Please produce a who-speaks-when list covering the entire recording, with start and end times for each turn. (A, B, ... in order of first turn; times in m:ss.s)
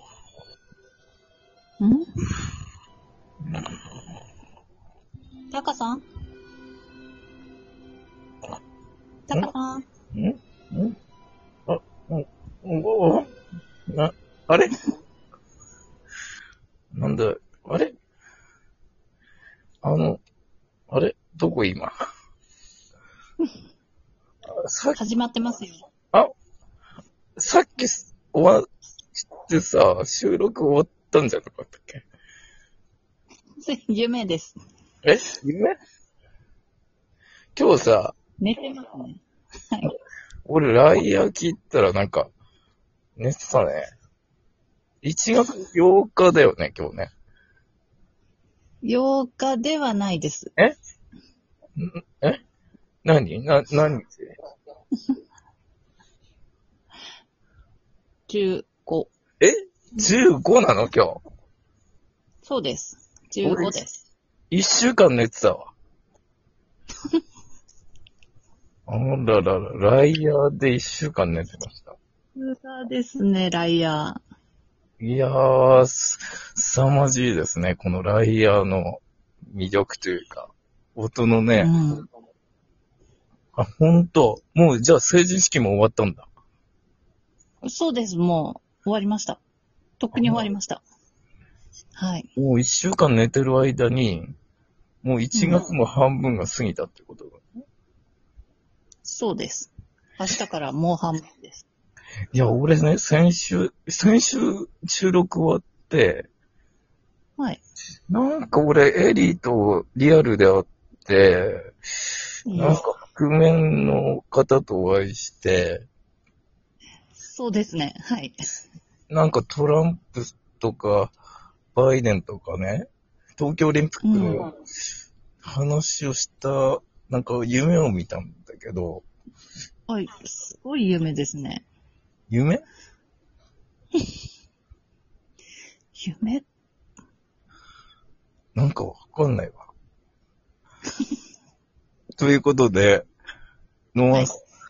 0:01.8-0:02.1 A
0:05.5-0:06.0 A
0:09.3-0:09.8 A
0:10.1-0:11.0 B
0:11.7-0:13.3 B
0:13.9-0:14.7 B
0:16.9-0:18.0 B
0:19.8-0:20.2 B
0:20.9-0:21.9 B
0:24.5-0:25.0 B
0:25.0-0:25.8 A
0:27.4-0:28.6 B
0:29.1-0:32.0 B
0:33.6-0:34.6 A
0:35.0-0:35.8 B
0:37.6-0:38.1 B
0:38.4-0:39.9 A
0:40.5-0:42.3 B
0:43.2-0:43.9 B
0:45.0-0:47.1 B
0:48.8-0:50.5 A
0:51.8-0:52.4 B
0:53.0-0:54.3 B
0:58.3-0:59.1 A
0:59.4-1:01.2 B
1:02.4-1:04.0 A
1:03.4-1:03.8 B
1:04.5-1:05.7 B
1:08.9-1:12.0 B
1:12.4-1:14.2 A
1:15.0-1:21.7 B
1:21.6-1:22.1 A
1:23.6-1:26.3 B
1:27.6-1:29.4 A
1:30.0-1:30.8 A
1:30.1-1:30.5 B
1:32.0-1:32.3 A
1:32.4-1:34.3 B
1:35.0-1:37.4 B
1:35.3-1:35.7 A
1:39.0-1:41.6 A
1:42.3-1:46.3 B
1:48.1-1:51.7 B
1:52.5-1:52.8 A
1:52.5-1:55.9 B
1:57.2-1:58.4 A
1:59.1-2:01.1 B
2:01.7-2:04.5 B
2:04.0-2:04.5 A
2:05.4-2:09.1 B
2:09.9-2:11.6 A
2:12.3-2:12.6 B
2:16.0-2:16.4 A
2:18.6-2:19.7 B
2:22.2-2:23.1 B
2:23.9-2:24.3 B